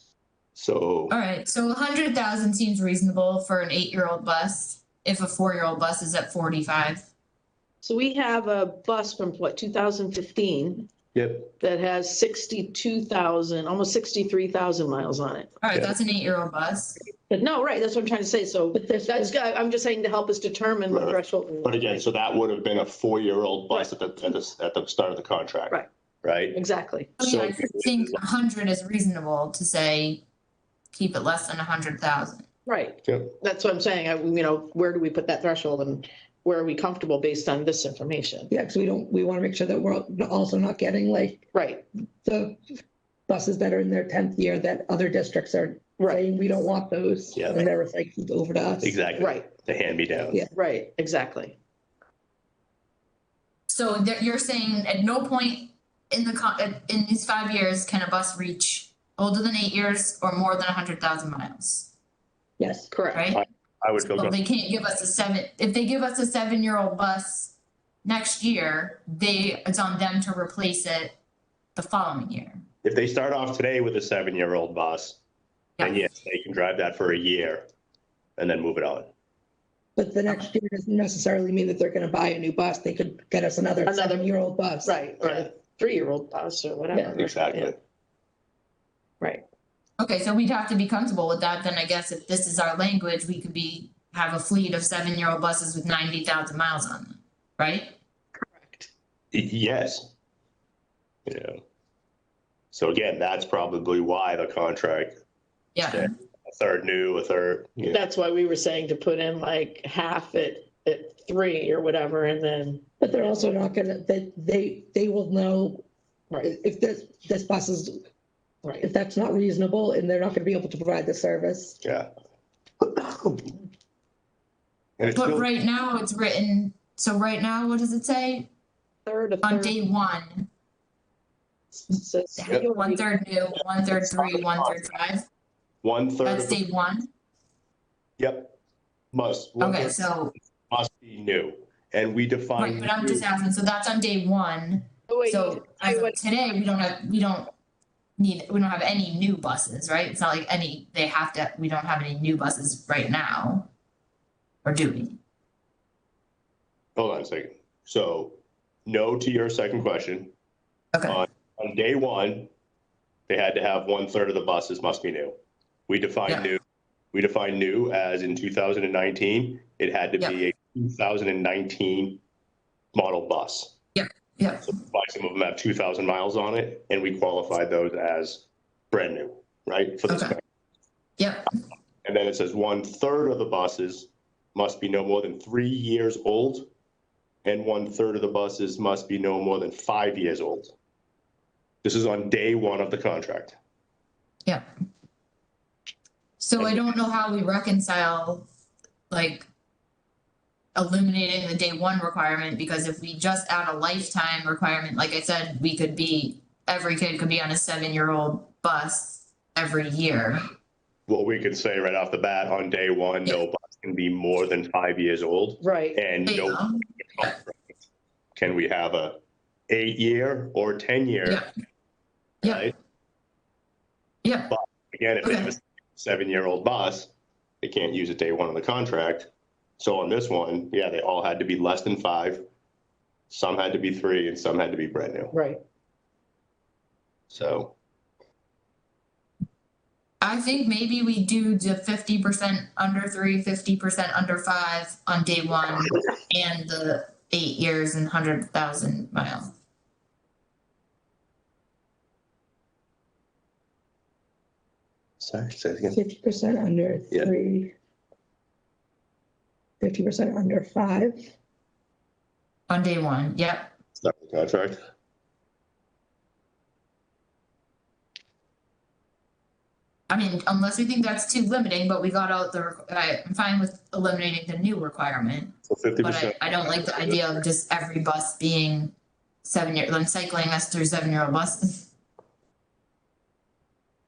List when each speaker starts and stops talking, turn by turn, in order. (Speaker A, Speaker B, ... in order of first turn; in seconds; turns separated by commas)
Speaker A: 0.6-1.2, Speaker B: 1.1-7.1, Speaker C: 7.8-10.9, Speaker A: 11.1-11.5, Speaker C: 11.6-15.6, Speaker B: 15.6-17.0, Speaker A: 15.7-16.0, Speaker C: 17.4-22.0, Speaker D: 18.7-19.4, Speaker A: 20.9-26.6, Speaker C: 26.5-27.1, Speaker B: 27.2-30.2, Speaker A: 27.2-28.2, Speaker B: 30.9-32.5, Speaker C: 32.7-38.5, Speaker A: 33.0-33.4, Speaker D: 38.5-41.5, Speaker C: 41.5-41.9, Speaker D: 42.2-42.6, Speaker D: 43.3-49.0, Speaker C: 46.0-46.2, Speaker A: 47.4-47.7, Speaker A: 48.8-50.4, Speaker C: 49.2-49.5, Speaker C: 50.5-51.6, Speaker B: 53.7-61.9, Speaker D: 62.6-62.9, Speaker C: 62.9-63.3, Speaker B: 63.1-63.4, Speaker A: 63.3-64.4, Speaker B: 64.0-71.2, Speaker B: 71.8-72.6, Speaker A: 72.8-75.2, Speaker A: 75.8-77.7, Speaker A: 78.4-79.1, Speaker D: 80.0-85.0, Speaker C: 83.9-84.3, Speaker C: 84.8-87.7, Speaker A: 85.2-85.5, Speaker A: 87.2-87.8, Speaker B: 90.0-98.0, Speaker C: 98.4-98.9, Speaker A: 99.3-100.1, Speaker A: 101.3-101.6, Speaker A: 102.7-105.1, Speaker B: 105.8-106.1, Speaker A: 105.8-108.0, Speaker C: 107.9-112.8, Speaker D: 113.0-115.8, Speaker D: 116.4-118.0, Speaker D: 118.8-121.8, Speaker A: 121.8-122.1, Speaker A: 125.0-125.5, Speaker B: 125.1-128.5, Speaker C: 129.1-129.8, Speaker B: 129.4-130.5, Speaker C: 131.8-133.1, Speaker B: 132.4-135.2, Speaker A: 134.1-134.8, Speaker A: 135.8-136.6, Speaker B: 136.2-137.1, Speaker A: 138.2-138.6, Speaker A: 139.1-140.1, Speaker B: 139.6-140.3, Speaker A: 140.7-143.3, Speaker B: 142.6-147.5, Speaker C: 145.1-146.2, Speaker B: 148.2-153.7, Speaker B: 154.7-155.2, Speaker A: 157.0-160.3, Speaker B: 160.9-161.2, Speaker A: 161.1-162.5, Speaker A: 163.3-165.4, Speaker A: 165.9-166.6, Speaker A: 167.1-172.2, Speaker A: 172.9-173.7, Speaker B: 173.9-174.7, Speaker A: 174.7-180.4, Speaker B: 180.1-180.3, Speaker B: 181.2-181.5, Speaker A: 182.0-186.7, Speaker A: 187.4-190.8, Speaker A: 191.8-193.6, Speaker B: 196.4-198.5, Speaker A: 196.6-197.0, Speaker B: 199.1-199.5, Speaker B: 200.8-210.5, Speaker A: 211.1-217.5, Speaker C: 215.6-216.0, Speaker B: 216.2-217.3, Speaker A: 218.3-221.4, Speaker A: 222.4-222.7, Speaker B: 224.2-224.5, Speaker A: 224.5-232.4, Speaker B: 225.2-225.5, Speaker A: 233.3-235.4, Speaker C: 235.3-235.6, Speaker A: 237.3-237.8, Speaker B: 240.2-249.5, Speaker A: 255.2-256.0, Speaker D: 255.9-257.8, Speaker D: 259.8-261.3, Speaker B: 262.7-263.7, Speaker A: 264.0-264.8, Speaker B: 270.1-281.9, Speaker A: 275.7-277.4